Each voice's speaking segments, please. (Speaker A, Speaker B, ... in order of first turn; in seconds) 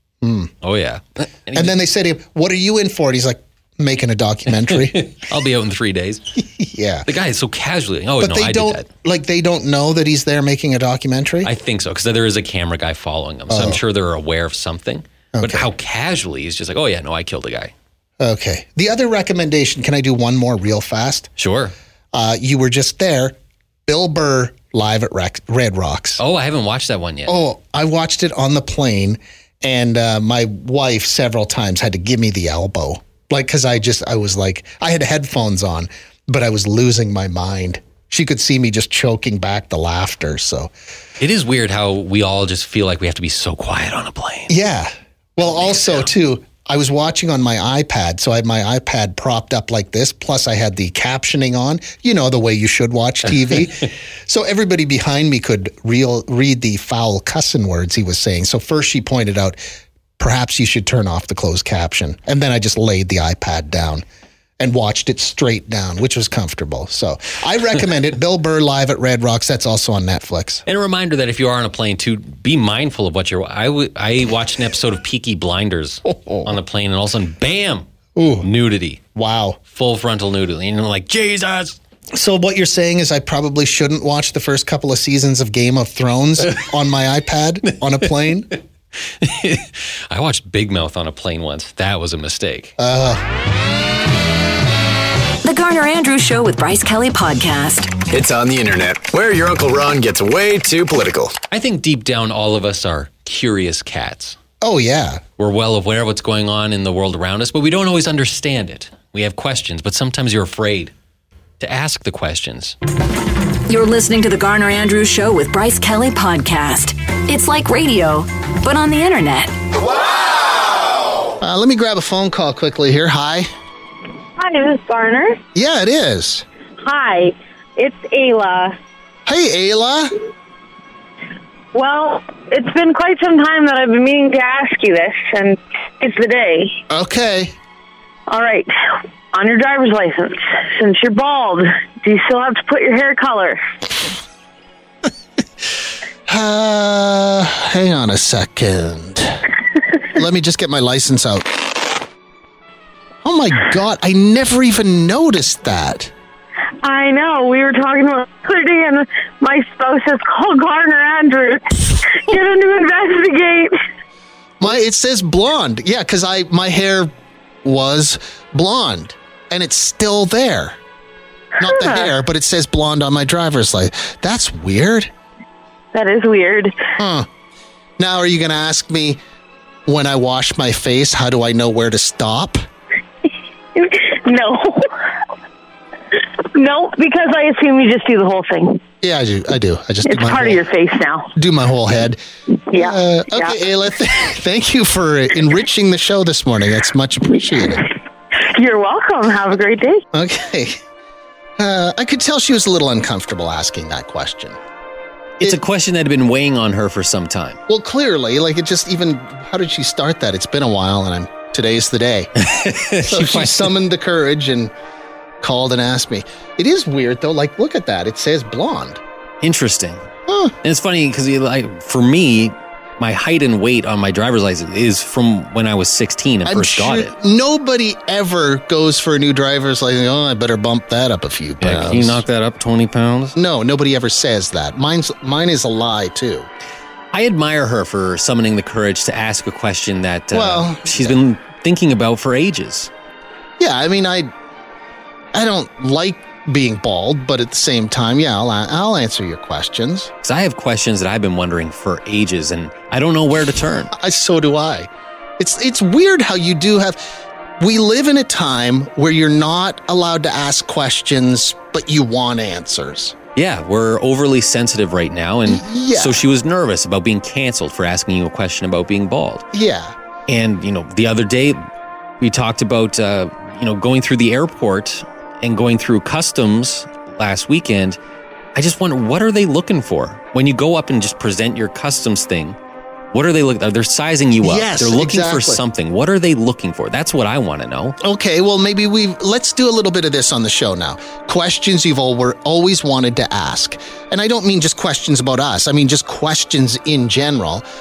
Speaker A: 0.2-0.5, 1.5-5.0, 6.4-7.1, 8.2-11.5, 13.5-13.8, 15.3-15.7, 18.2-21.3, 22.1-26.2, 27.3-40.7, 44.5-59.6, 60.2-64.0, 64.6-70.6, 76.1-76.5, 78.2-78.5, 79.2-79.6, 82.1-88.5, 92.8-93.2, 104.6-105.2, 121.4-123.5, 125.5-126.5, 129.3-130.1, 136.9-137.6, 146.3-149.4, 150.1-151.5, 153.2-156.1, 164.6-167.1, 167.6-170.8, 171.6-175.1, 177.0-177.3, 178.0-179.2, 179.9-182.6, 189.0-190.6, 191.4-192.2, 192.7-197.9, 200.1-200.8, 201.6-204.6, 207.7-212.3, 213.1-214.7, 215.4-219.0, 220.3-220.6, 226.5-232.2, 233.3-236.5, 240.3-241.2, 243.6-244.3, 245.3-250.1, 253.9-263.2, 265.5-266.2, 269.5-269.9, 284.4-285.6, 288.0-297.6
Speaker B: 0.6-1.8, 4.7-6.3, 7.1-8.9, 11.4-17.7, 21.4-21.7, 26.2-27.4, 41.2-44.5, 45.5-46.1, 70.7-77.9, 78.4-79.0, 79.7-81.8, 89.2-92.8, 101.5-104.4, 105.4-110.9, 111.6-112.8, 205.4-207.6, 212.4-213.7, 219.4-220.0, 220.6-227.1, 231.6-233.4, 237.1-242.9, 250.2-253.9, 263.4-269.5, 270.3-271.6, 272.2-278.0, 278.6-282.6, 283.1-288.0
Speaker C: 95.4-98.0, 113.7-119.5
Speaker D: 98.1-101.4
Speaker E: 124.4-125.4, 126.8-128.8, 131.7-136.8, 138.3-138.7, 139.3-143.7, 156.8-163.8, 175.9-176.9, 183.8-184.9, 186.5-188.8, 190.1-191.3, 192.7-193.6, 198.4-200.0